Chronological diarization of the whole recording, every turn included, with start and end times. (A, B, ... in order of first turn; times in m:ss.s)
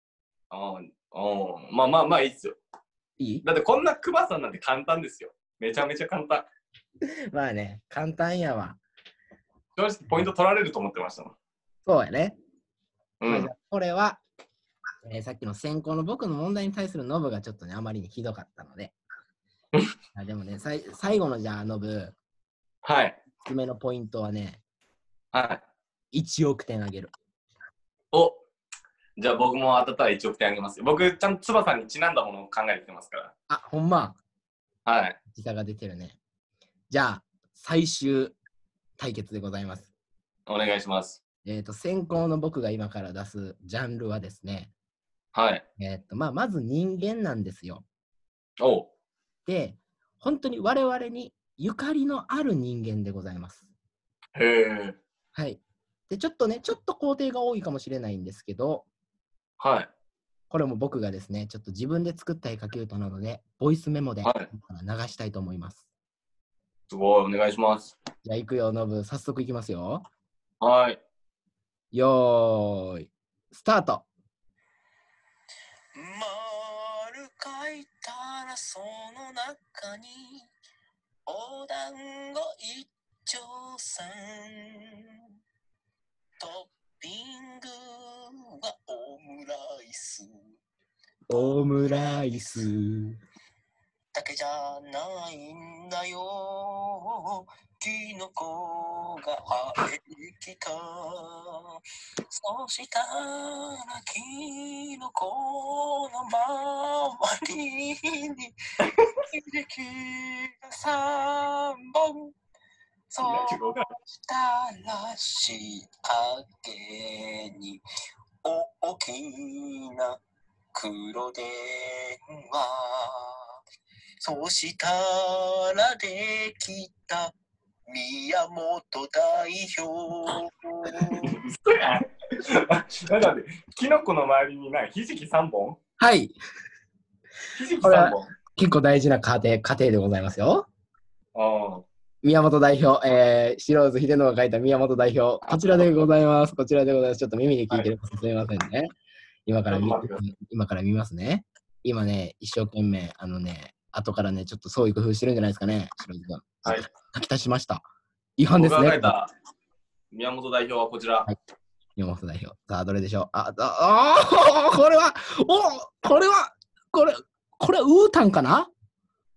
0:00.5-0:02.6 A
0:03.2-0:03.4 B
0:03.4-0:06.5 A
0:07.3-0:08.8 B
0:09.8-0:11.3 A
0:11.9-0:12.4 B
0:13.2-0:13.5 A
0:13.3-0:14.2 B
0:15.0-0:18.9 B
0:20.2-0:22.2 B
0:22.8-0:23.2 A
0:23.4-0:24.6 B
0:25.3-0:25.6 A
0:26.1-0:27.1 B
0:28.1-0:28.4 A
0:29.2-0:33.3 A
0:33.5-0:34.2 B
0:34.9-0:35.2 A
0:35.3-0:36.2 B
0:36.9-0:38.4 B
0:39.0-0:39.9 B
0:40.5-0:41.2 A
0:41.4-0:44.7 B
0:45.3-0:45.6 A
0:45.8-0:47.8 B
0:48.6-0:48.9 A
0:49.5-0:53.7 B
0:54.4-0:55.0 A
0:55.4-0:58.9 B
0:59.6-0:59.9 A
1:00.5-1:05.8 B
1:04.2-1:04.5 A
1:06.9-1:08.0 A
1:08.2-1:10.0 B
1:10.6-1:11.0 A
1:11.9-1:14.1 B
1:16.0-1:20.1 C
1:21.3-1:24.1 C
1:26.4-1:27.7 C
1:28.9-1:30.2 C
1:31.3-1:33.2 B
1:34.2-1:36.7 C
1:37.8-1:39.1 C
1:40.4-1:41.3 C
1:42.5-1:48.0 C
1:48.8-1:49.1 A
1:49.7-1:50.1 C
1:50.7-1:51.4 C
1:53.2-1:53.9 A
1:54.3-1:57.8 C
1:58.5-1:59.4 C
2:00.8-2:01.9 C
2:04.2-2:05.1 C
2:06.0-2:07.2 C
2:07.9-2:09.9 C
2:11.1-2:15.8 A
2:16.0-2:16.4 B
2:17.5-2:18.3 A
2:17.8-2:20.7 B
2:21.4-2:21.9 A
2:22.2-2:28.9 B
2:25.4-2:25.9 A
2:29.5-2:37.8 B
2:29.7-2:30.2 A
2:38.4-2:39.1 B
2:38.5-2:39.3 A
2:40.1-2:41.3 A
2:42.0-2:48.7 B